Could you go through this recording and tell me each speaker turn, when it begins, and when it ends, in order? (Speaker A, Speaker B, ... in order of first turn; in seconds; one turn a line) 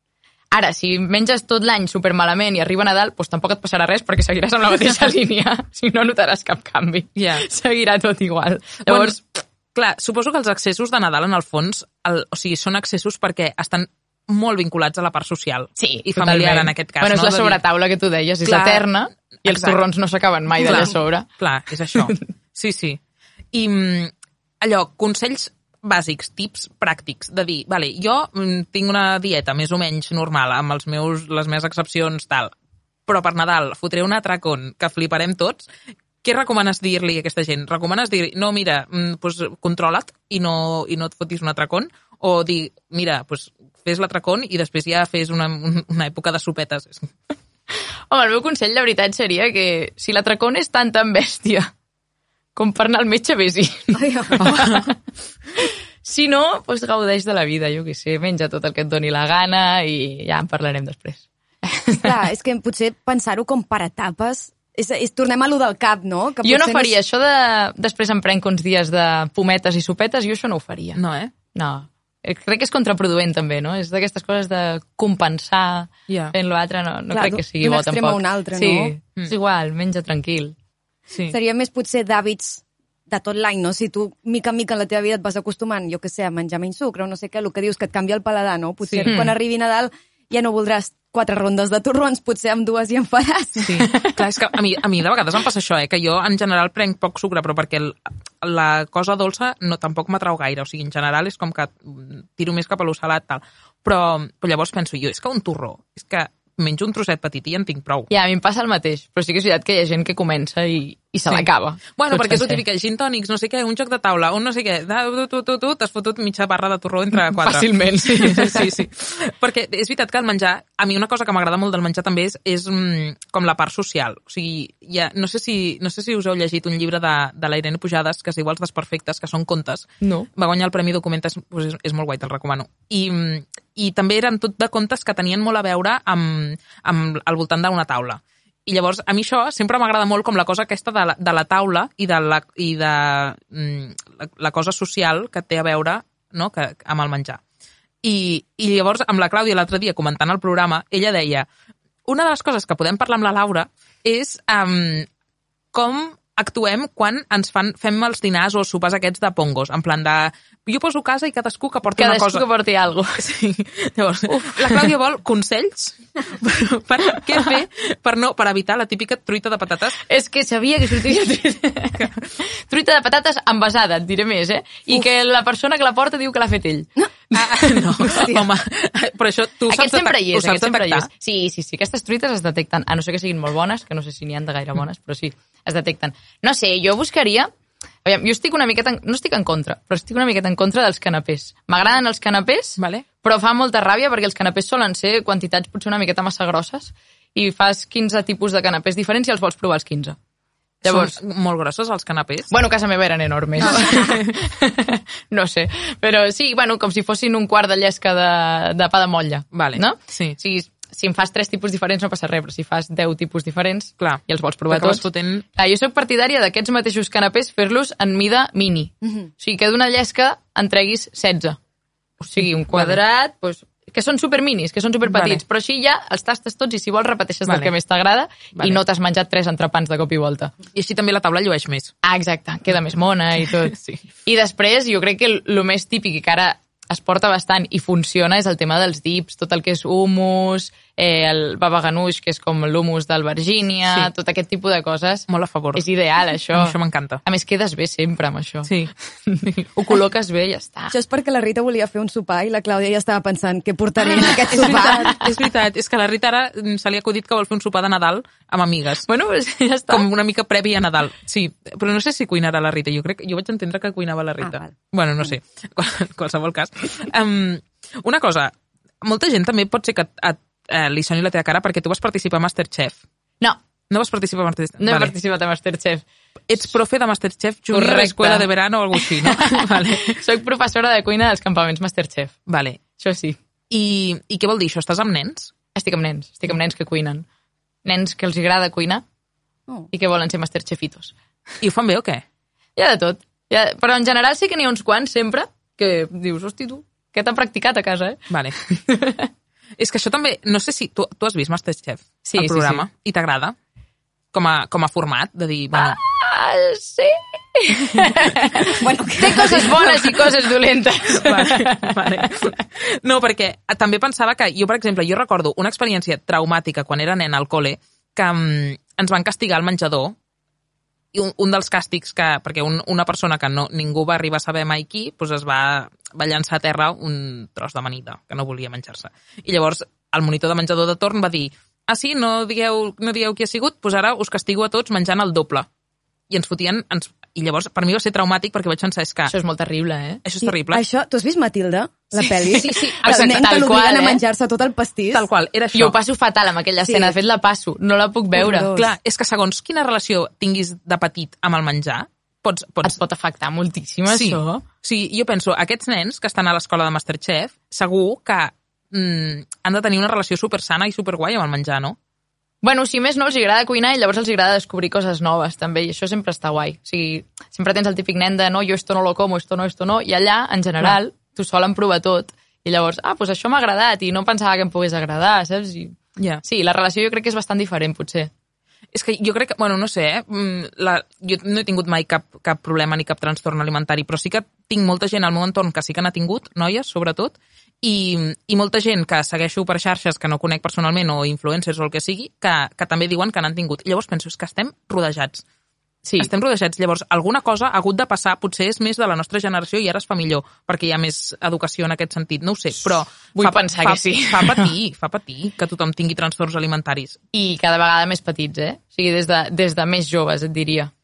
Speaker A: 0.5-9.2
Speaker B: 7.2-7.4
Speaker B: 8.8-9.2
Speaker B: 9.7-17.6
Speaker A: 15.8-21.3
Speaker B: 18.4-18.9
Speaker B: 19.4-19.8
Speaker B: 20.6-23.0
Speaker B: 23.5-32.5
Speaker B: 33.1-35.7
Speaker B: 36.2-47.1
Speaker A: 48.1-51.7
Speaker A: 52.5-55.0
Speaker C: 53.9-54.4
Speaker B: 54.4-54.9
Speaker A: 56.0-62.1
Speaker C: 62.0-66.9
Speaker A: 66.4-71.0
Speaker B: 71.0-71.3
Speaker A: 71.5-80.5
Speaker B: 76.1-76.3
Speaker C: 77.1-78.9
Speaker C: 81.3-93.9
Speaker A: 89.0-89.3
Speaker B: 93.7-108.1
Speaker A: 108.1-112.6
Speaker B: 111.3-147.4
Speaker A: 117.2-118.7
Speaker A: 130.0-130.3
Speaker B: 148.0-151.5
Speaker B: 152.1-155.1
Speaker B: 155.7-162.4
Speaker A: 161.9-163.2
Speaker B: 163.2-170.0
Speaker A: 164.3-164.9
Speaker A: 170.1-178.3
Speaker B: 177.3-181.1
Speaker A: 179.7-187.5
Speaker A: 188.0-200.2
Speaker B: 192.8-193.0
Speaker A: 200.8-201.2
Speaker B: 200.8-202.5
Speaker A: 202.5-215.0
Speaker B: 203.6-204.2
Speaker C: 203.7-204.1
Speaker B: 209.5-210.4
Speaker B: 214.0-215.4
Speaker A: 215.6-221.6
Speaker A: 222.2-230.5
Speaker B: 222.4-223.0
Speaker B: 225.1-225.4
Speaker B: 227.5-227.7
Speaker B: 230.7-231.9
Speaker A: 232.0-248.7
Speaker B: 233.7-234.0
Speaker B: 245.3-245.8
Speaker B: 246.5-247.2
Speaker B: 248.7-248.9
Speaker A: 249.3-250.9
Speaker C: 250.9-255.1
Speaker B: 254.2-259.1
Speaker A: 254.5-255.3
Speaker A: 259.1-260.1
Speaker B: 259.9-273.0
Speaker C: 264.4-264.7
Speaker B: 273.9-275.1
Speaker A: 274.8-276.0
Speaker B: 276.5-280.2
Speaker A: 277.7-282.3
Speaker B: 282.5-282.8
Speaker A: 283.0-283.4
Speaker B: 283.7-285.5
Speaker A: 285.7-287.2
Speaker A: 287.8-289.0
Speaker A: 289.9-291.1
Speaker B: 291.6-292.2
Speaker A: 292.8-298.2
Speaker B: 298.3-298.6
Speaker A: 298.7-299.3
Speaker B: 299.8-303.6
Speaker A: 302.2-302.8
Speaker B: 304.3-306.0
Speaker A: 305.7-308.7
Speaker C: 308.6-310.0
Speaker A: 309.2-312.6
Speaker B: 309.4-309.9
Speaker B: 311.1-320.1
Speaker B: 321.1-335.7
Speaker B: 336.3-339.3
Speaker A: 339.3-340.2
Speaker B: 340.2-340.8
Speaker C: 340.4-345.2
Speaker A: 342.4-344.2
Speaker B: 342.6-343.6
Speaker B: 345.1-345.9
Speaker A: 345.7-348.7
Speaker C: 346.9-347.1
Speaker C: 348.3-348.9
Speaker B: 348.7-352.9
Speaker A: 352.8-354.6
Speaker B: 354.1-362.0
Speaker A: 362.6-378.3
Speaker B: 378.9-395.4
Speaker A: 396.0-396.3
Speaker B: 396.2-407.2
Speaker A: 402.8-404.7
Speaker A: 407.3-410.9